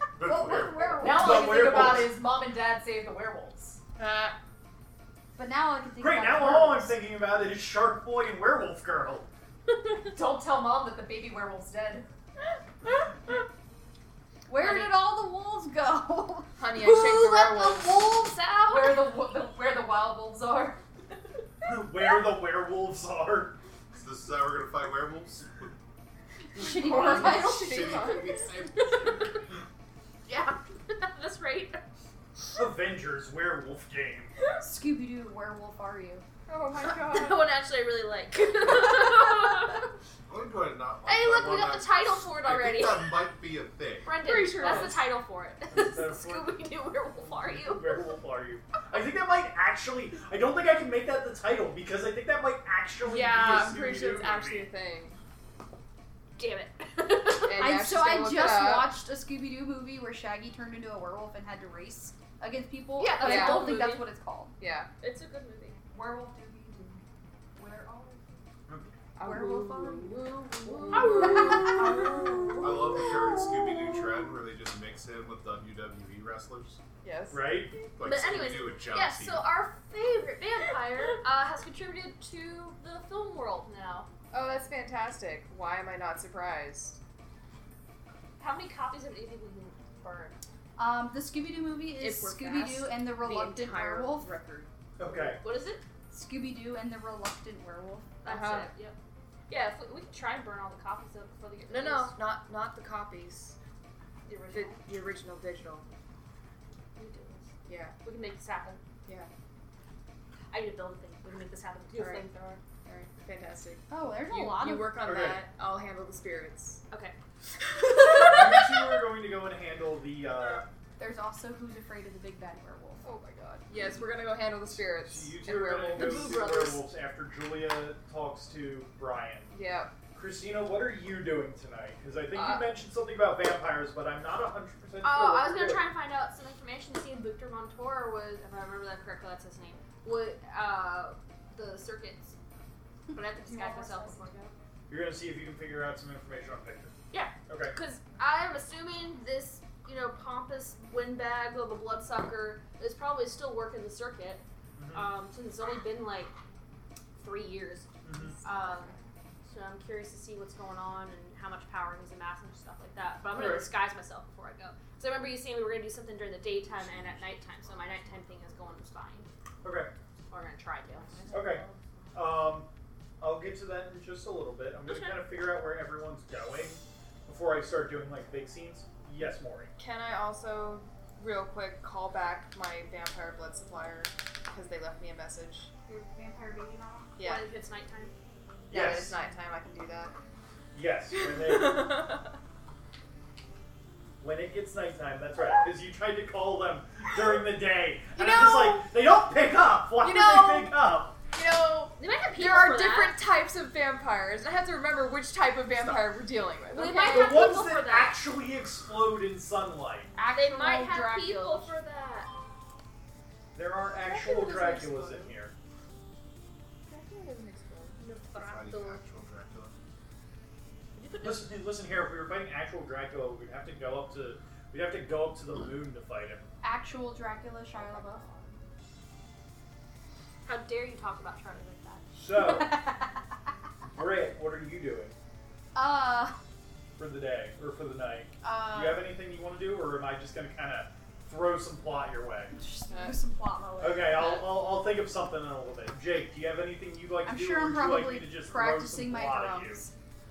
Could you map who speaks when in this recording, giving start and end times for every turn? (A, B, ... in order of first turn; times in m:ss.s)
0:00.2-0:01.2 A
0:00.2-0:01.8 B
0:01.0-0:03.8 C
0:01.1-0:02.2 D
0:04.0-0:04.3 E
0:05.4-0:07.0 B
0:06.0-0:09.3 D
0:10.1-0:12.0 C
0:14.5-0:18.0 B
0:14.6-0:14.9 F
0:16.6-0:17.9 E
0:17.1-0:19.1 F
0:18.7-0:20.8 C
0:21.6-0:23.6 D
0:23.9-0:25.7 A
0:26.5-0:28.0 B
0:26.6-0:28.5 E
0:26.9-0:29.4 A
0:28.8-0:29.1 F
0:30.2-0:31.8 F
0:32.5-0:34.3 D
0:34.6-0:36.2 B
0:36.5-0:37.4 E
0:36.9-0:39.9 F
0:40.3-0:44.2 A
0:41.0-0:43.3 F
0:44.0-0:48.0 F
0:44.2-0:45.0 E
0:45.7-0:46.6 D
0:47.2-0:54.7 D
0:53.0-0:55.2 E
0:56.4-0:57.8 F
0:57.4-0:58.9 E
0:57.5-1:04.5 B
1:03.0-1:04.1 F
1:03.0-1:03.8 E
1:04.6-1:04.9 E
1:05.0-1:05.8 F
1:05.9-1:07.0 C
1:07.6-1:08.2 C
1:08.7-1:08.9 D
1:09.2-1:12.2 E
1:09.2-1:10.4 B
1:10.9-1:12.6 F
1:10.9-1:12.0 B
1:11.8-1:12.6 C
1:12.6-1:16.8 A
1:17.0-1:17.8 E
1:17.3-1:17.7 D
1:18.0-1:19.5 A
1:18.0-1:24.1 F
1:24.3-1:27.0 E
1:28.4-1:30.4 F
1:30.8-1:34.3 B
1:32.0-1:34.7 E
1:35.0-1:35.4 D
1:35.1-1:35.8 F
1:36.1-1:38.2 B
1:38.2-1:38.7 E
1:38.2-1:39.0 F
1:39.5-1:42.2 F
1:41.7-1:43.6 E
1:44.2-1:44.9 F
1:44.5-1:45.9 E
1:47.0-1:48.8 F
1:47.6-1:48.0 E
1:49.0-1:49.3 E
1:50.5-1:52.6 F
1:51.9-1:56.8 E
1:53.9-1:55.1 B
1:55.0-1:55.4 D
1:56.9-1:57.2 F
1:57.7-1:58.8 F
1:58.1-2:00.6 D
2:01.0-2:03.0 B
2:03.0-2:06.8 E
2:05.0-2:09.5 D
2:05.9-2:06.8 F
2:09.5-2:09.9 E
2:10.1-2:15.9 D
2:12.3-2:12.7 E
2:15.0-2:22.4 F
2:23.1-2:24.5 F
2:23.2-2:24.3 B
2:24.9-2:27.0 D
2:27.1-2:36.3 F
2:27.5-2:27.8 D
2:34.8-2:35.2 D
2:37.2-2:37.9 F
2:38.0-2:38.4 D
2:38.4-2:38.9 F
2:39.4-2:49.3 F
2:43.3-2:43.6 E
2:46.9-2:48.1 A
2:49.6-2:49.9 D
2:50.3-2:51.3 F
2:51.3-2:52.7 D
2:53.2-2:59.7 D
2:54.8-2:55.2 F
2:59.8-3:05.7 E
3:05.9-3:07.2 B
3:07.2-3:07.5 E
3:07.2-3:08.1 F
3:08.7-3:09.2 D
3:08.7-3:10.1 E
3:10.7-3:12.0 D
3:11.2-3:12.3 E
3:14.2-3:21.2 D
3:18.2-3:18.8 E
3:20.0-3:20.8 E
3:21.3-3:27.4 E
3:22.0-3:23.2 F
3:26.7-3:28.2 F
3:27.0-3:30.1 D
3:30.1-3:31.7 B
3:30.3-3:32.3 F
3:33.5-3:35.5 D
3:36.9-3:38.0 E
3:38.0-3:39.0 F
3:38.3-3:39.7 A
3:40.9-3:41.5 F
3:41.2-3:46.4 D
3:46.6-3:48.2 B
3:50.4-3:52.0 F
3:52.1-3:52.8 D
3:52.3-3:53.1 B
3:53.8-3:55.2 D
3:55.7-3:56.4 B
3:57.0-4:02.5 D
3:58.4-3:59.0 B
4:02.5-4:04.4 B
4:02.9-4:03.2 E
4:03.8-4:09.8 D
4:07.2-4:09.9 B